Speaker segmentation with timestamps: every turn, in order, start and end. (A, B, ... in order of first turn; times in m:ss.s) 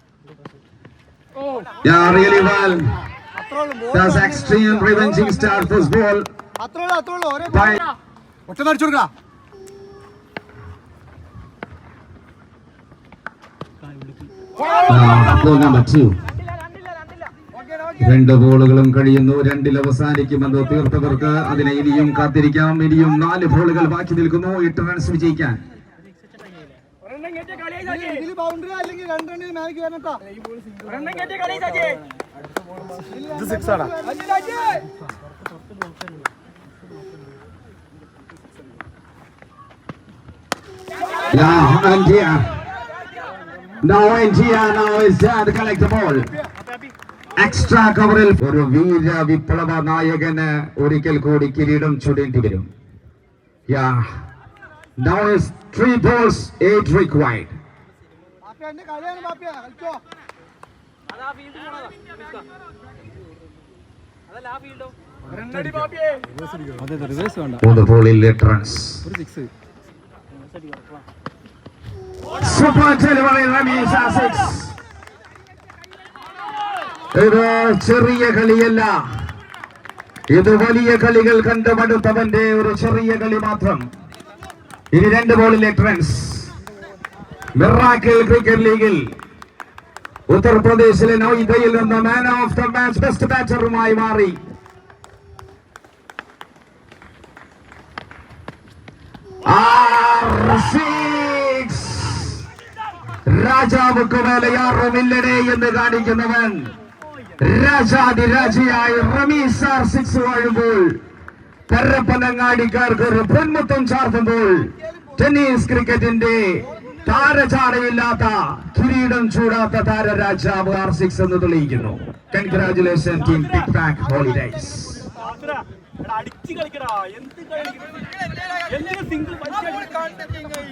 0:01.8-0:03.0 A
0:03.4-0:05.6 B
0:03.9-0:06.3 A
0:06.6-0:07.8 B
0:07.5-0:07.8 A
0:08.5-0:09.1 B
0:14.9-0:16.2 A
0:18.0-0:25.6 A
0:27.8-0:30.2 B
0:30.9-0:32.0 C
0:33.2-0:34.4 B
0:41.3-0:42.6 A
0:43.8-0:46.3 A
0:47.4-0:52.7 A
0:53.7-0:54.1 A
0:55.0-0:57.5 A
0:58.4-1:00.0 B
1:07.6-1:09.1 A
1:12.4-1:14.8 A
1:17.1-1:19.0 A
1:20.3-1:23.8 A
1:24.9-1:26.5 A
1:27.6-1:29.1 A
1:30.3-1:34.4 A
1:39.4-1:42.4 A
1:43.2-1:46.7 A
1:47.4-1:51.0 A
1:51.7-2:05.1 A
2:06.1-2:07.9 C
2:08.7-2:09.9 C